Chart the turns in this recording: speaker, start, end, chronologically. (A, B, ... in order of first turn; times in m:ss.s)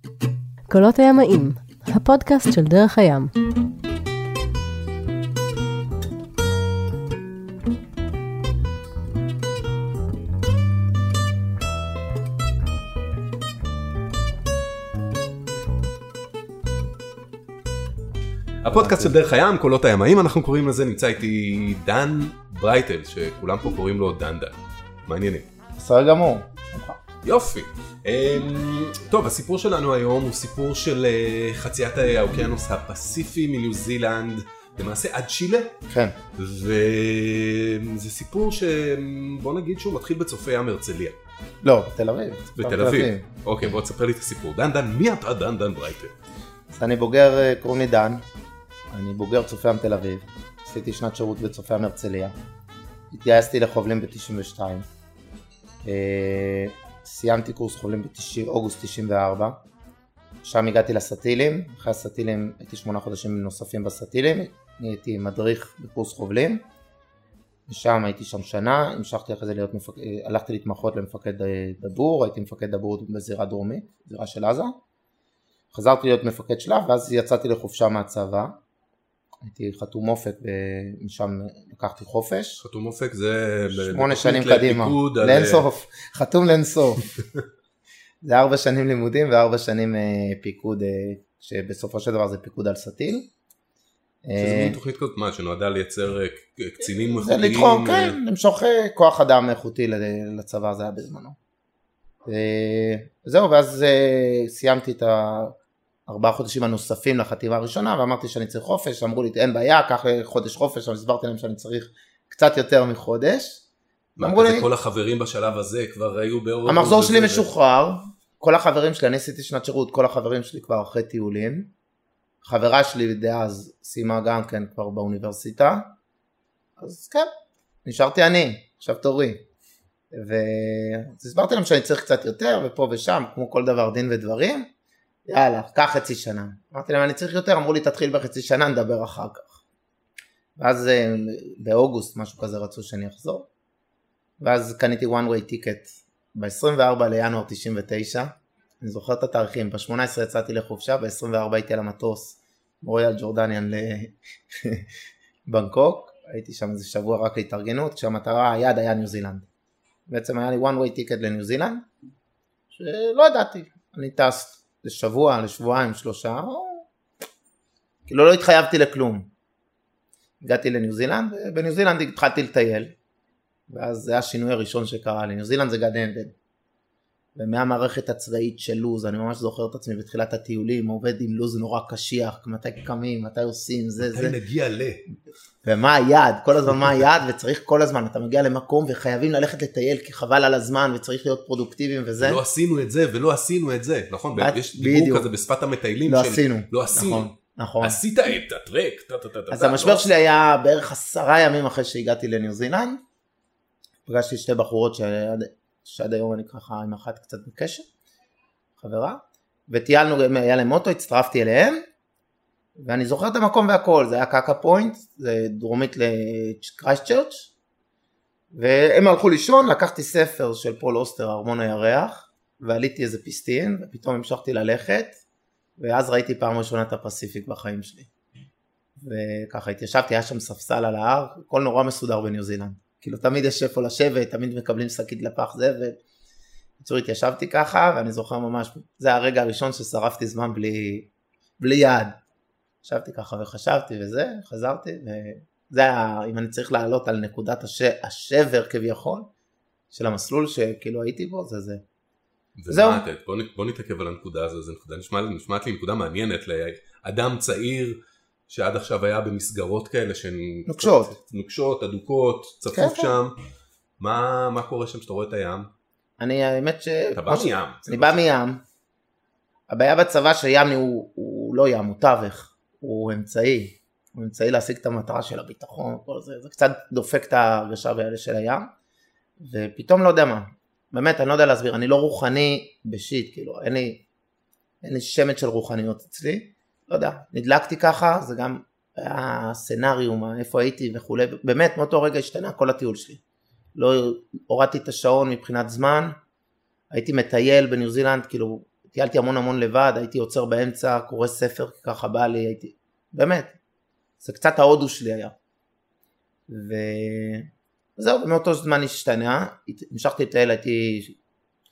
0:00.7-0:03.3 A
0:18.6-0:25.5 B
0:18.7-0:19.2 C
0:25.8-0:27.0 C
0:27.2-0:35.7 B
0:35.9-0:36.2 C
0:36.4-0:41.2 B
0:41.6-0:43.3 C
0:42.6-0:46.1 B
0:46.7-0:48.2 C
0:48.9-0:52.3 C
0:53.1-0:54.9 C
0:55.8-0:59.6 C
1:00.4-1:06.6 C
1:07.7-1:14.7 C
1:15.7-1:18.6 C
1:19.4-1:22.6 C
1:22.6-1:25.7 B
1:23.7-1:27.1 C
1:28.2-1:33.3 C
1:34.2-1:34.8 C
1:34.4-1:38.2 B
1:37.2-1:41.4 C
1:42.2-1:45.5 C
1:46.1-1:53.6 C
1:54.2-1:57.5 B
1:54.2-1:54.7 C
1:56.6-2:01.7 C
2:02.4-2:05.9 C
2:06.8-2:07.3 C
2:07.8-2:09.4 C
2:10.1-2:14.7 C
2:15.3-2:19.6 C
2:20.6-2:23.4 C
2:24.4-2:34.8 C
2:35.4-2:39.4 C
2:40.1-2:41.8 C
2:42.7-2:46.8 C
2:48.1-2:49.3 C
2:50.4-2:52.9 C
2:53.7-2:56.3 C
2:57.4-3:04.4 C
3:04.0-3:05.0 B
3:05.6-3:12.4 C
3:12.2-3:17.3 B
3:14.4-3:15.3 C
3:16.0-3:18.0 C
3:17.8-3:20.1 B
3:19.5-3:23.0 C
3:24.0-3:27.8 C
3:28.8-3:31.8 C
3:32.8-3:37.5 C
3:38.5-3:45.1 C
3:45.8-3:48.1 C
3:49.0-3:56.0 C
3:56.8-4:01.1 C
4:01.6-4:02.2 C
4:02.8-4:09.3 C
4:09.9-4:11.8 C
4:12.6-4:18.0 B
4:12.7-4:13.0 C
4:18.5-4:23.3 B
4:20.6-4:21.2 C
4:22.7-4:23.1 C
4:24.0-4:25.7 B
4:26.2-4:28.6 C
4:27.1-4:28.2 B
4:29.7-4:38.7 C
4:39.4-4:44.0 C
4:44.8-4:53.2 C
4:53.7-4:56.2 C
4:56.9-5:03.5 C
5:04.2-5:05.3 C
5:06.5-5:11.2 C